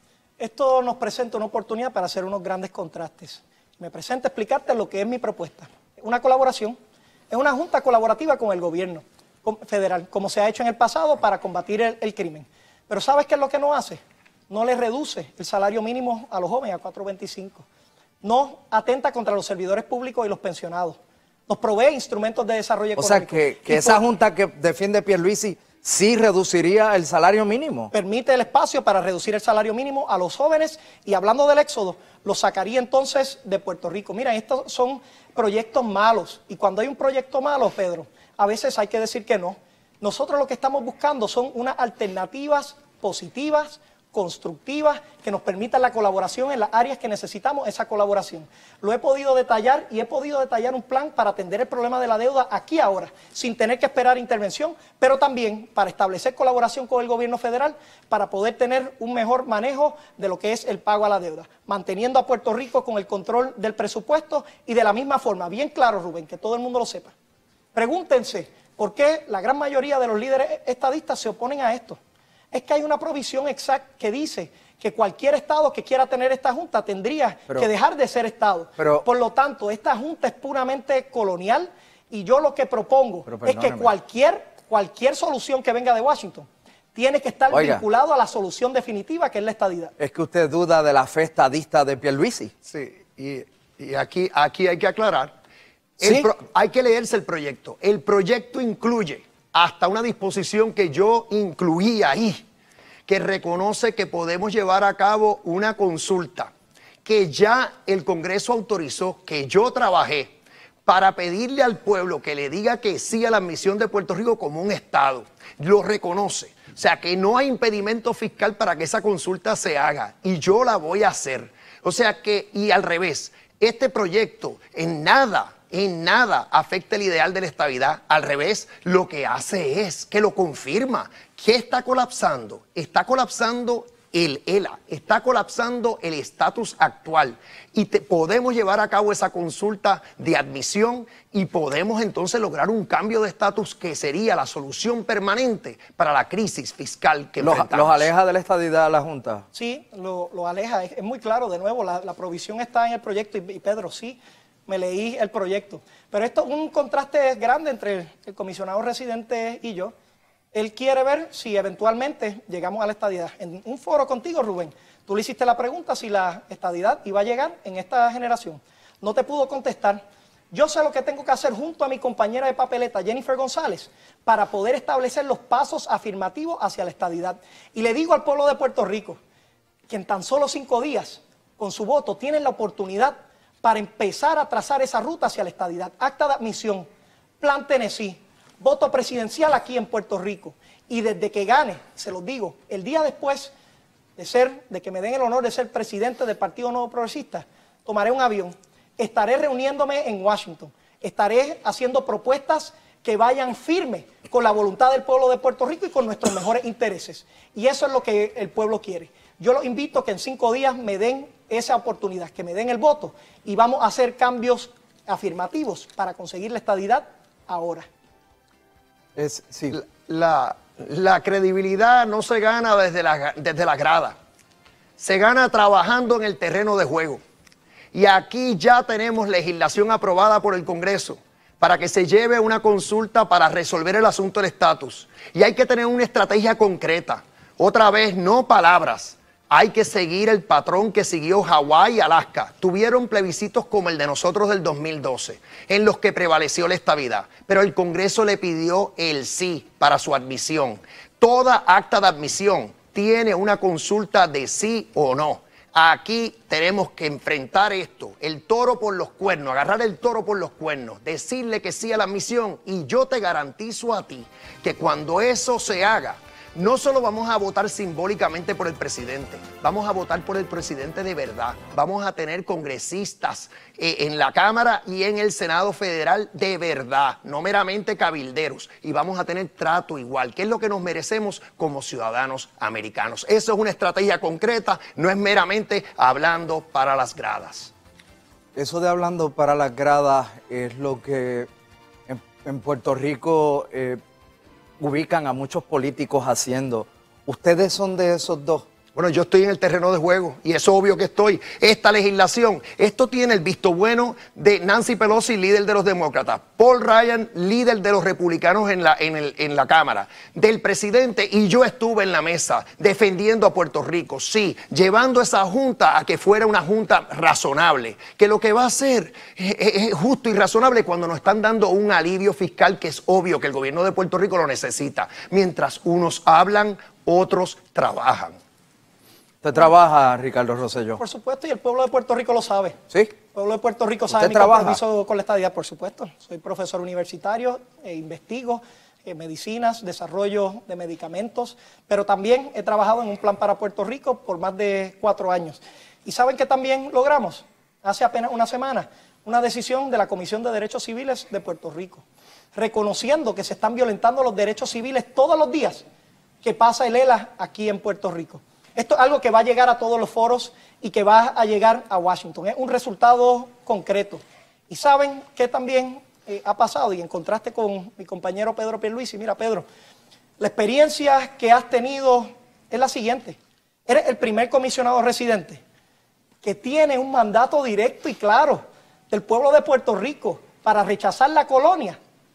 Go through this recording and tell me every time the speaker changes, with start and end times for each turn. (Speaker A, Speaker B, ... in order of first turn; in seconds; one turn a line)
Speaker A: 0.4-6.8
Speaker A: 7.3-17.6
Speaker A: 18.2-24.0
Speaker B: 23.0-27.9
Speaker A: 27.9-67.1
Speaker A: 67.8-72.0
Speaker A: 72.5-89.9
Speaker B: 78.8-79.1
Speaker B: 83.3-83.9
Speaker B: 87.5-87.8
Speaker B: 90.0-92.5
Speaker C: 92.7-95.3
Speaker C: 96.0-102.4
Speaker B: 96.0-96.3
Speaker C: 103.1-106.5
Speaker C: 107.0-110.3
Speaker C: 110.9-148.1
Speaker B: 147.4-149.4
Speaker A: 149.5-159.9
Speaker A: 160.5-179.2
Speaker A: 179.9-186.9
Speaker A: 187.4-193.5
Speaker A: 194.2-217.9
Speaker B: 219.2-219.8
Speaker C: 219.7-224.2
Speaker C: 225.0-227.2
Speaker C: 227.9-287.7
Speaker B: 288.6-291.5
Speaker B: 292.1-294.0
Speaker B: 294.8-298.6
Speaker C: 298.9-328.4
Speaker B: 329.4-331.0
Speaker A: 331.0-332.8
Speaker A: 333.3-352.0
Speaker B: 334.1-334.8
Speaker A: 352.6-355.8
Speaker A: 356.4-369.6
Speaker A: 370.4-375.6
Speaker A: 376.4-382.0